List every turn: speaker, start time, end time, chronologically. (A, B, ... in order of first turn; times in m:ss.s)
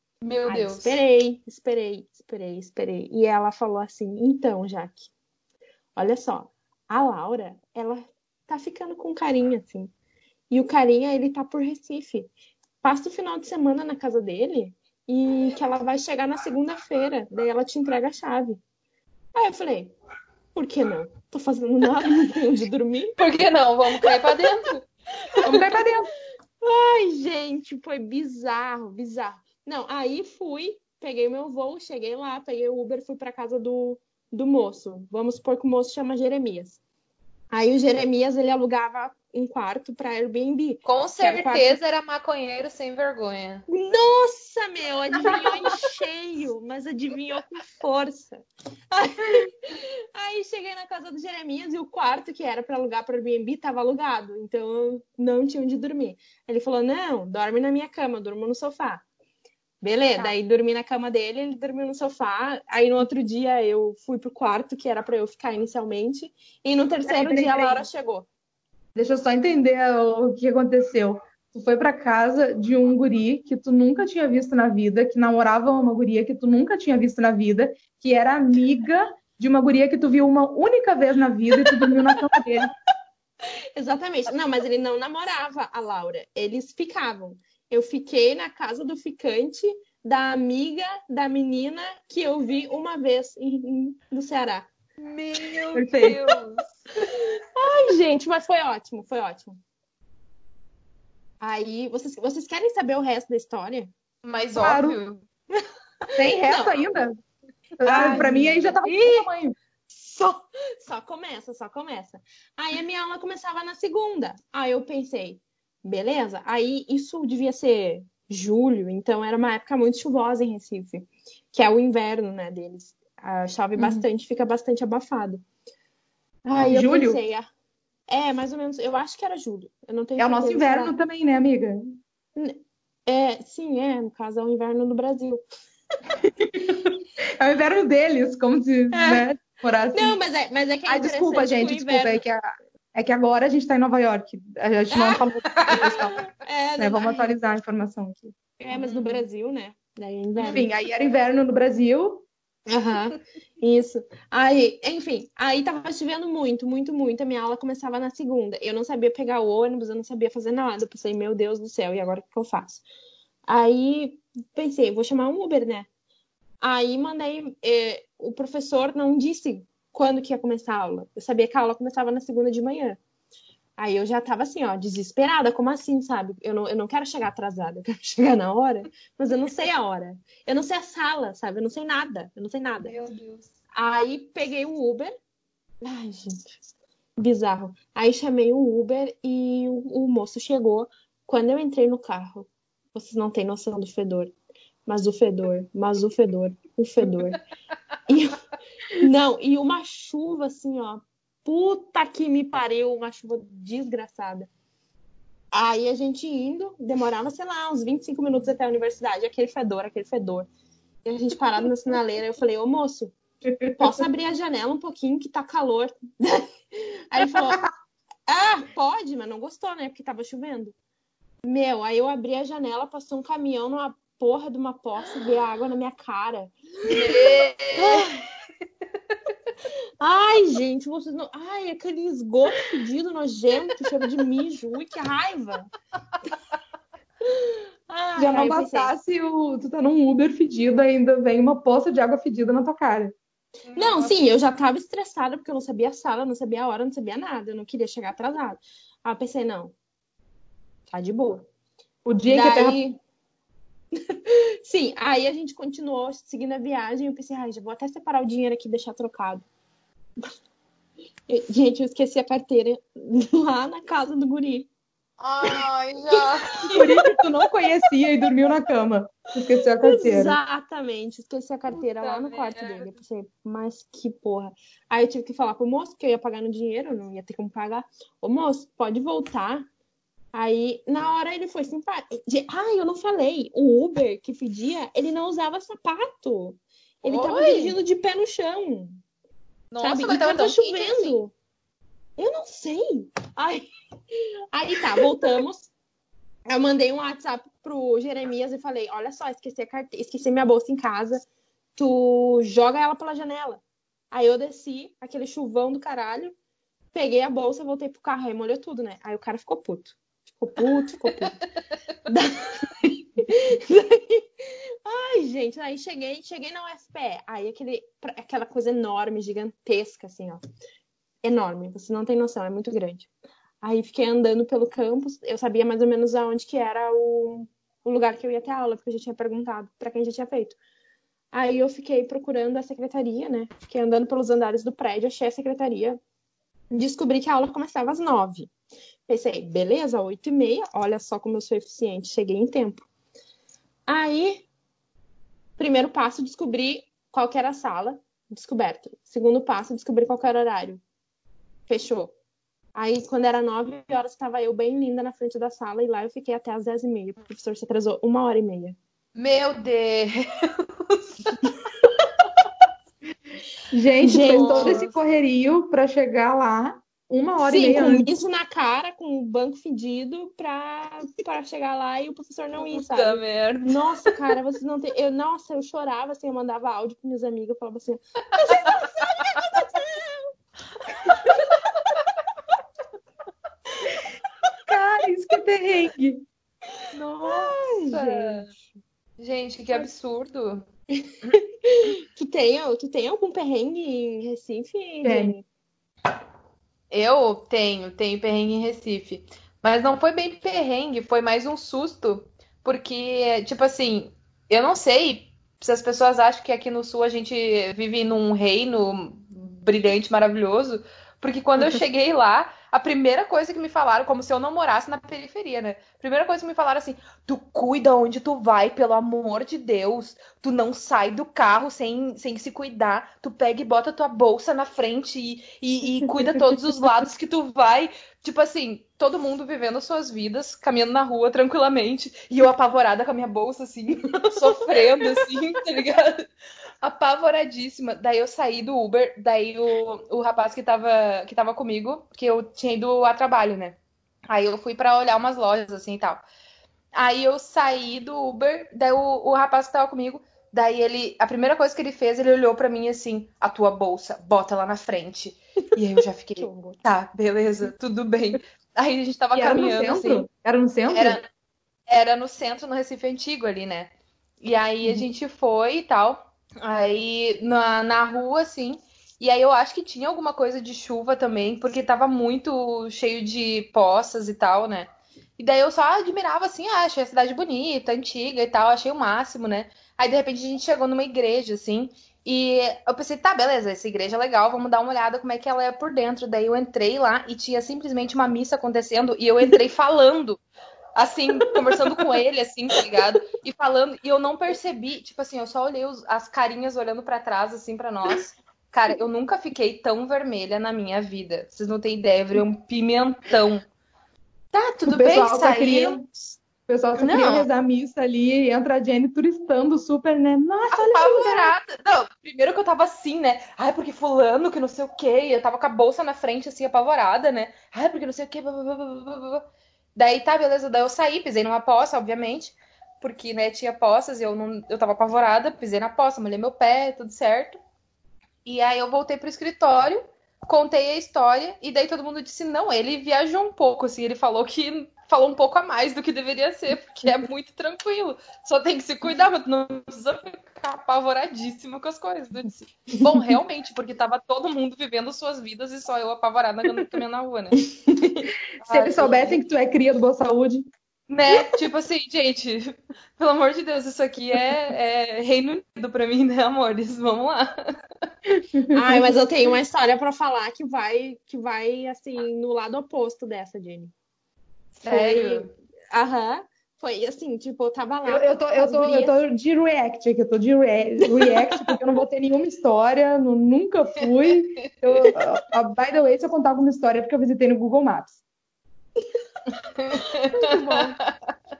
0:00.2-0:01.0 A
0:00.5-0:05.1 B
0:06.0-0:09.9 B
0:10.5-0:12.3 B
0:12.8-0:18.6 B
0:19.4-0:20.0 B
0:20.6-0:23.2 B
0:23.2-0:25.5 A
0:23.9-0:24.5 B
0:25.4-0:26.1 C
0:26.6-0:36.8 B
0:37.5-0:41.8 B
0:40.9-0:43.6 A
0:43.7-0:59.0 B
0:59.8-1:08.3 B
1:07.1-1:07.8 C
1:09.0-1:22.7 C
1:23.8-1:34.7 B
1:35.0-1:36.6 A
1:35.7-1:36.2 C
1:37.1-1:39.6 B
1:41.4-1:43.9 B
1:44.2-1:45.2 A
1:44.6-1:45.0 C
1:46.2-1:46.8 B
1:46.2-1:47.2 C
1:47.8-1:49.6 C
1:47.8-1:49.3 B
1:47.9-1:48.3 A
1:49.9-2:05.4 B
2:06.5-2:07.5 B
2:06.7-2:07.2 C
2:08.1-2:11.0 B
2:10.2-2:12.0 C
2:12.4-2:15.4 B
2:16.2-2:20.2 C
2:18.9-2:19.3 B
2:19.9-2:22.2 B
2:20.9-2:26.3 C
2:24.9-2:27.3 B
2:26.8-2:28.4 C
2:28.6-2:30.7 B
2:28.9-2:29.2 A
2:30.4-2:32.3 C
2:32.7-2:42.8 B
2:43.5-2:45.9 B
2:46.6-2:53.0 B
2:53.8-3:02.9 B
3:02.8-3:03.5 A
3:03.8-3:05.1 B
3:05.8-3:06.4 B
3:07.2-3:14.3 B
3:14.9-3:17.4 B
3:18.1-3:18.4 B
3:19.0-3:24.5 B
3:25.5-3:30.5 B
3:31.0-3:33.2 B
3:33.6-3:33.9 C
3:33.8-3:37.6 B
3:38.3-3:40.8 B
3:41.4-3:47.2 B
3:46.9-3:48.1 A
3:47.7-3:48.2 B
3:50.0-3:55.7 B
3:57.3-3:58.9 B
3:58.2-4:03.2 C
4:03.7-4:04.2 A
4:03.8-4:09.8 B
4:10.9-4:11.5 B
4:12.1-4:12.8 C
4:12.3-4:13.0 B
4:14.1-4:19.5 B
4:21.3-4:24.7 B
4:25.2-4:26.8 A
4:25.4-4:27.2 B
4:26.8-4:30.4 C
4:29.8-4:39.7 B
4:31.7-4:32.9 A
4:40.3-4:49.0 B
4:47.0-4:47.8 A
4:49.7-4:51.2 A
4:49.8-4:51.3 B
4:52.2-4:55.7 B
4:56.5-5:01.2 B
5:01.8-5:06.3 B
5:06.9-5:11.4 B
5:12.1-5:20.4 B
5:21.2-5:23.1 B
5:23.6-5:30.6 B
5:31.3-5:36.0 B
5:36.7-5:38.5 B
5:39.1-5:42.9 B
5:43.9-5:44.5 B
5:45.6-5:50.8 B
5:51.7-5:52.1 B
5:52.8-5:58.8 B
5:59.2-6:01.0 A
6:03.7-6:08.1 C
6:04.0-6:04.9 B
6:04.2-6:04.9 A
6:07.4-6:20.3 B
6:12.6-6:14.2 A
6:21.0-6:21.6 B
6:24.7-6:26.2 C
6:27.0-6:28.5 A
6:27.2-6:28.4 B
6:29.2-6:30.6 A
6:31.4-6:35.5 B
6:35.0-6:35.4 C
6:36.9-7:16.2 A
7:16.8-7:23.8 A
7:24.3-7:26.2 A
7:26.9-7:40.3 A
7:36.4-7:36.8 B
7:39.3-7:41.2 C
7:40.9-7:41.2 A
7:41.9-8:10.4 A
8:11.0-8:23.6 A
8:24.5-8:26.4 A
8:24.8-8:26.0 C
8:26.7-8:31.6 C
8:27.0-8:27.5 A
8:30.7-8:39.4 A
8:40.0-8:47.6 A
8:48.4-9:07.6 A
9:03.0-9:03.4 C
9:07.9-9:08.2 B
9:08.6-9:09.4 A
9:08.6-9:10.7 C
9:11.1-9:17.6 A
9:18.5-9:19.0 C
9:18.7-9:23.9 B
9:24.8-9:25.5 A
9:24.9-9:29.2 B
9:28.1-9:38.2 C
9:39.8-9:40.6 A
9:40.0-9:41.0 B